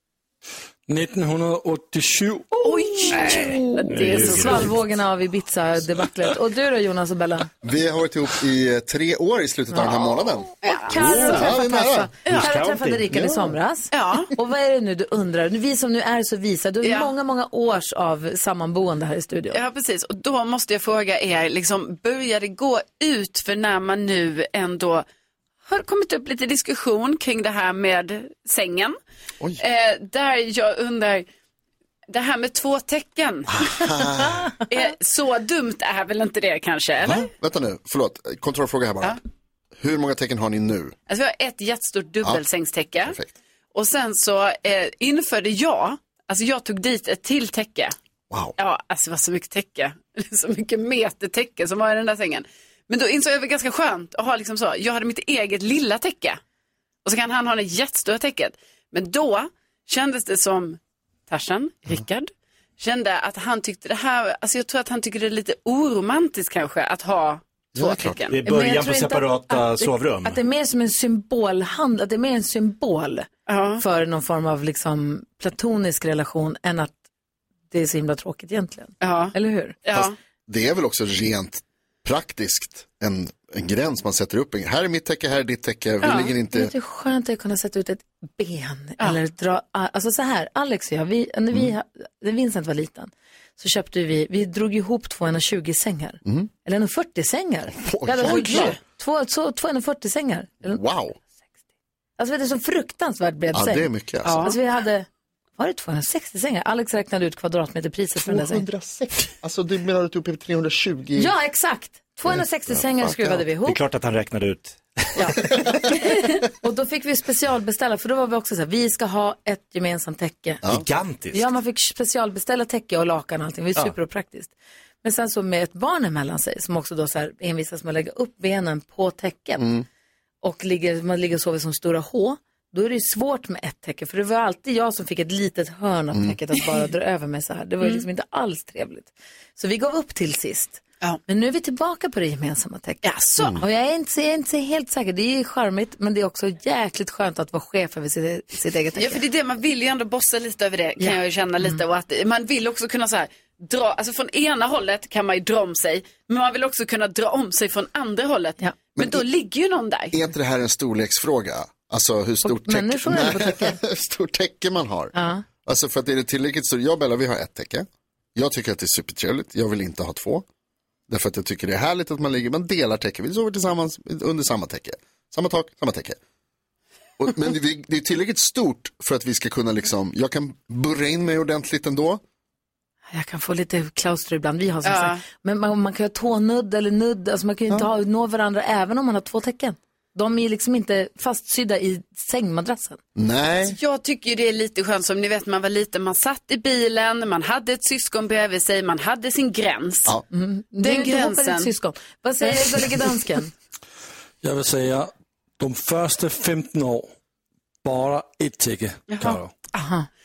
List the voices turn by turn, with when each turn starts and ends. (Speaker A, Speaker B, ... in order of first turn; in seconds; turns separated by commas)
Speaker A: 0.9-2.5, Speaker B: 2.6-4.4, Speaker C: 2.7-7.5, Speaker D: 3.3-4.8, Speaker E: 7.6-12.4, Speaker C: 9.7-19.6, Speaker B: 10.6-11.4, Speaker D: 12.3-13.1, Speaker E: 13.1-13.5, Speaker B: 13.9-14.3, Speaker B: 16.8-17.1, Speaker B: 19.5-25.0, Speaker B: 25.7-28.9, Speaker B: 29.6-31.2, Speaker B: 32.1-33.9, Speaker E: 33.5-34.5, Speaker B: 34.6-37.3, Speaker E: 37.0-39.2, Speaker E: 39.8-40.9, Speaker B: 41.1-43.1, Speaker E: 43.0-43.3, Speaker B: 43.7-47.9, Speaker E: 48.3-48.5, Speaker B: 48.6-56.4, Speaker B: 57.0-68.4, Speaker E: 67.8-68.2, Speaker D: 68.3-70.4, Speaker C: 68.4-77.0, Speaker B: 73.5-73.8, Speaker C: 77.7-79.8, Speaker B: 79.0-80.1, Speaker E: 79.9-86.7, Speaker B: 86.0-86.3, Speaker C: 86.5-100.8, Speaker E: 97.8-98.8, Speaker B: 98.2-98.8, Speaker E: 100.7-101.2, Speaker C: 102.2-108.6, Speaker E: 103.5-104.4, Speaker B: 104.2-104.5, Speaker E: 108.2-111.3, Speaker C: 111.2-113.8, Speaker E: 112.7-113.4, Speaker D: 113.6-115.3, Speaker C: 115.1-120.6, Speaker D: 120.7-121.4, Speaker C: 121.3-129.7, Speaker E: 129.6-129.8, Speaker C: 130.4-143.0, Speaker E: 136.1-136.4, Speaker B: 143.0-143.6, Speaker C: 143.5-149.2, Speaker B: 149.0-160.2, Speaker E: 159.0-159.2, Speaker E: 160.1-165.1, Speaker C: 162.4-163.8, Speaker C: 165.1-165.4, Speaker E: 165.6-170.4, Speaker E: 171.1-176.2, Speaker E: 177.2-182.2, Speaker C: 183.1-193.0, Speaker B: 184.8-185.2, Speaker E: 193.2-193.8, Speaker B: 193.6-200.2, Speaker C: 200.3-203.5, Speaker B: 200.8-201.7, Speaker A: 204.4-207.1, Speaker A: 207.8-209.5, Speaker B: 209.1-209.4, Speaker C: 209.7-210.1